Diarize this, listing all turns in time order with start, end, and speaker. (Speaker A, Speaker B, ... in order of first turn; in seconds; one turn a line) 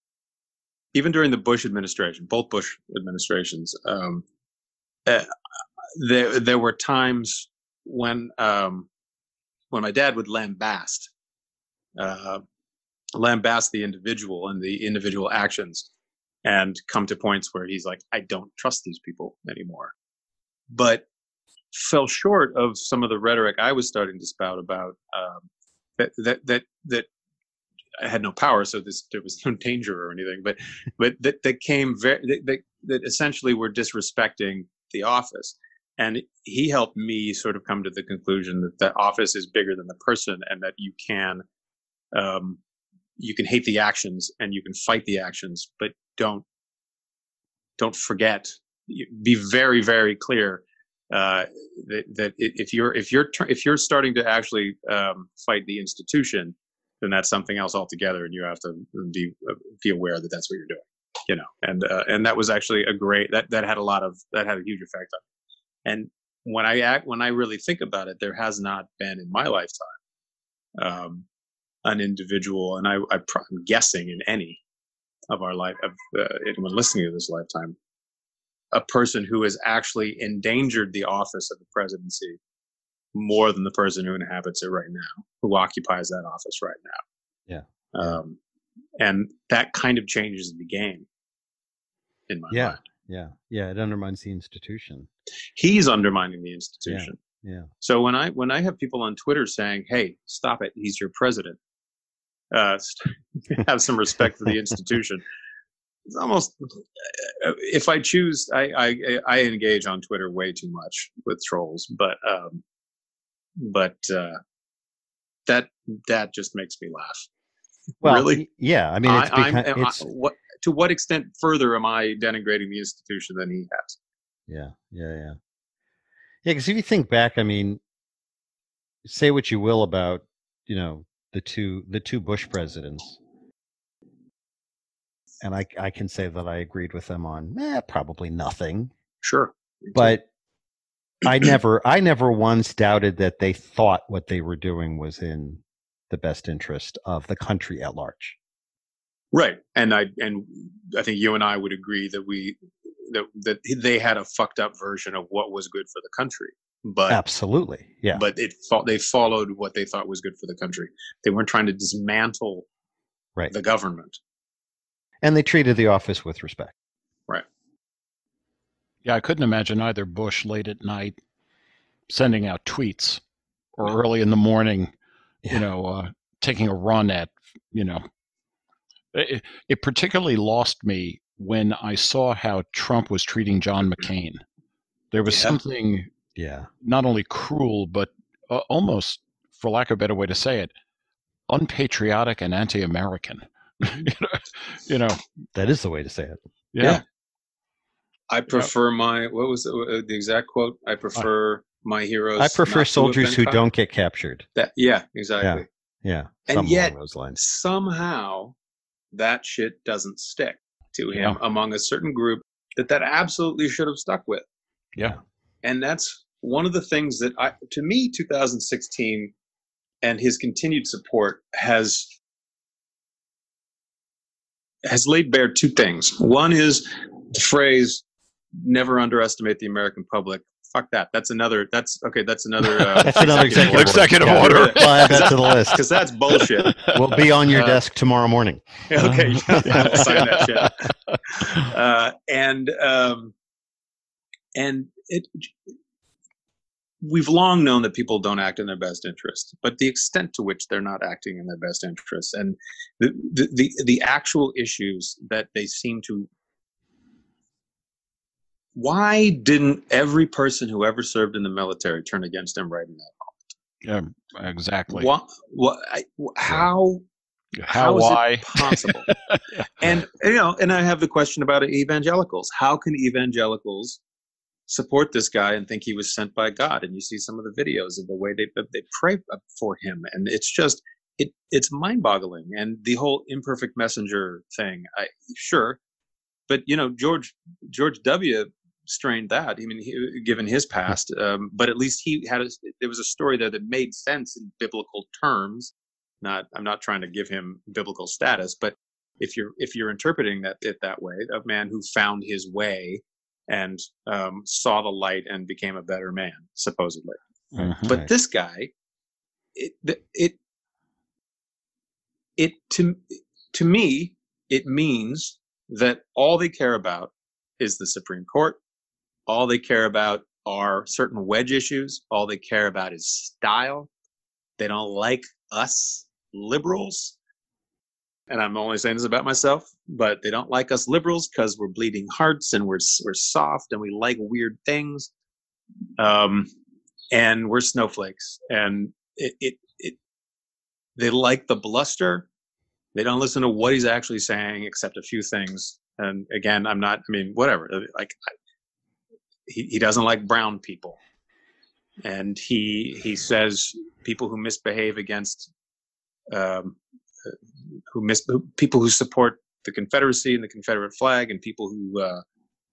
Speaker A: 0.9-4.2
Speaker A: 5.1-5.3
Speaker A: 6.0-8.9
Speaker A: 9.7-11.1
Speaker A: 12.0-12.4
Speaker A: 13.1-15.9
Speaker A: 16.4-19.9
Speaker A: 20.7-21.1
Speaker A: 21.7-25.4
Speaker A: 26.0-27.1
Speaker A: 28.0-41.4
Speaker A: 42.1-42.6
Speaker A: 43.2-46.5
Speaker A: 47.8-65.2
Speaker A: 65.8-69.9
Speaker A: 70.8-71.3
Speaker A: 71.8-74.6
Speaker A: 75.3-77.8
Speaker A: 78.7-82.4
Speaker A: 83.1-87.0
Speaker B: 87.5-88.2
Speaker A: 87.9-88.4
Speaker A: 89.0-91.1
Speaker A: 92.3-92.8
Speaker B: 92.5-95.1
Speaker A: 95.6-97.2
Speaker B: 96.9-97.7
Speaker A: 97.8-101.6
Speaker A: 102.5-105.2
Speaker A: 106.1-112.6
Speaker A: 113.6-114.4
Speaker A: 115.5-117.3
Speaker A: 118.0-118.4
Speaker B: 118.0-120.0
Speaker A: 119.0-124.0
Speaker B: 124.5-125.4
Speaker B: 126.5-127.8
Speaker B: 129.1-133.2
Speaker B: 135.4-138.9
Speaker A: 139.2-140.1
Speaker B: 139.9-140.2
Speaker B: 141.2-148.4
Speaker A: 149.3-157.2
Speaker B: 157.1-158.2
Speaker A: 158.1-162.7
Speaker A: 163.5-164.2
Speaker B: 165.2-166.7
Speaker C: 169.0-171.2
Speaker C: 172.1-173.2
Speaker C: 173.8-174.9
Speaker C: 175.5-178.0
Speaker C: 179.1-184.4
Speaker C: 185.1-186.1
Speaker A: 185.3-185.6
Speaker B: 186.4-186.7
Speaker C: 186.8-190.7
Speaker C: 191.5-195.2
Speaker B: 195.6-197.0
Speaker C: 196.7-197.0
Speaker A: 198.3-203.6
Speaker B: 202.4-204.4
Speaker A: 204.6-205.7
Speaker B: 205.4-207.4
Speaker A: 206.5-208.6
Speaker A: 209.1-214.4
Speaker A: 215.6-219.3
Speaker A: 220.0-222.1
Speaker A: 224.9-228.0
Speaker A: 228.6-236.8
Speaker C: 232.8-237.8
Speaker B: 233.1-235.8
Speaker B: 236.9-240.0
Speaker A: 238.9-240.8
Speaker C: 239.6-241.7
Speaker A: 241.4-243.3
Speaker A: 244.6-245.5
Speaker A: 247.0-256.3
Speaker A: 258.8-263.3
Speaker C: 263.8-265.1
Speaker A: 264.9-267.0
Speaker C: 267.6-270.0
Speaker A: 267.7-269.1
Speaker A: 269.8-274.0
Speaker A: 274.7-285.8
Speaker A: 286.5-307.2
Speaker C: 307.6-308.0
Speaker B: 307.6-308.1
Speaker A: 307.8-308.7
Speaker A: 309.6-310.4
Speaker A: 312.4-318.6
Speaker A: 319.3-323.9
Speaker A: 324.6-327.2
Speaker A: 328.3-335.1
Speaker A: 336.0-336.5
Speaker A: 337.1-340.0
Speaker A: 341.0-342.3
Speaker A: 342.9-348.2
Speaker A: 349.5-351.0
Speaker A: 352.0-355.5
Speaker A: 356.3-357.3
Speaker A: 357.9-362.2